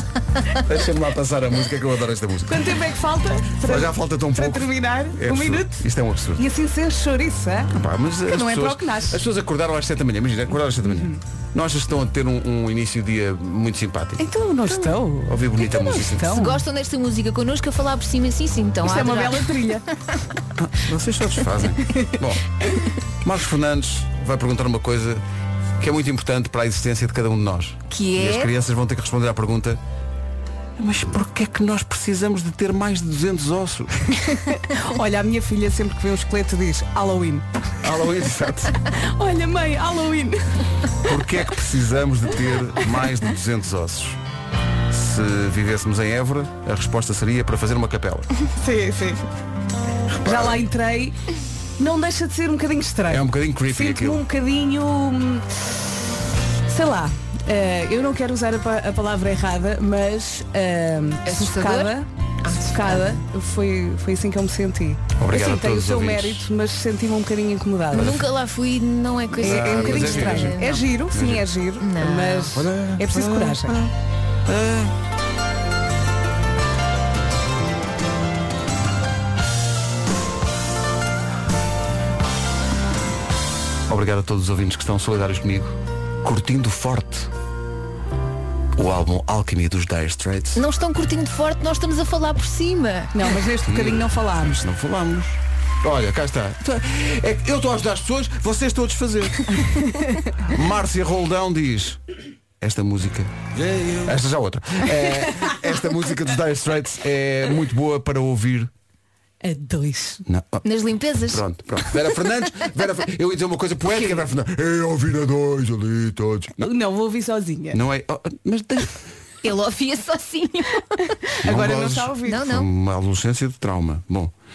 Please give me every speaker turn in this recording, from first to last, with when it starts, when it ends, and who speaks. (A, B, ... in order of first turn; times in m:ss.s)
0:00.5-0:02.7 A
0:02.5-0:05.8 B
0:03.6-0:06.4 A
0:06.4-0:07.7 B
0:07.7-0:14.2 A
0:08.3-0:09.2 B
0:10.8-0:11.2 B
0:14.2-0:16.6 B
0:15.2-0:16.4 A
0:16.2-0:19.6 C
0:18.8-0:19.8 B
0:20.6-0:22.4 A
0:23.2-0:25.2 A
0:25.8-0:29.8 A
0:27.9-0:28.5 C
0:30.8-0:34.1 A
0:34.3-0:37.4 B
0:37.8-0:38.7 A
0:38.9-0:40.5 B
0:41.0-0:44.2 A
0:44.9-0:48.3 A
0:48.6-0:49.3 B
0:50.1-0:50.6 A
0:50.2-0:51.2 B
0:51.8-0:55.4 B
0:53.1-0:54.2 A
0:56.7-1:08.2 B
1:01.2-1:03.2 C
1:05.2-1:06.4 A
1:07.9-1:10.8 C
1:09.4-1:11.5 A
1:09.4-1:13.8 B
1:11.8-1:12.6 C
1:12.5-1:13.9 A
1:14.4-1:14.9 A
1:23.9-1:27.3 A
1:28.7-1:30.6 A
1:30.5-1:33.2 C
1:33.1-1:34.6 B
1:33.6-1:39.6 A
1:39.5-1:40.3 B
1:40.4-1:42.0 A
1:42.6-1:43.3 A
1:43.9-1:48.7 A
1:49.4-1:50.2 B
1:50.2-1:50.6 A
1:50.6-1:52.0 C
1:51.2-1:56.6 A
1:56.6-1:57.8 B
1:57.7-1:59.0 A
1:59.4-2:01.0 C
2:01.2-2:02.4 B
2:01.4-2:04.3 A
2:02.2-2:02.7 C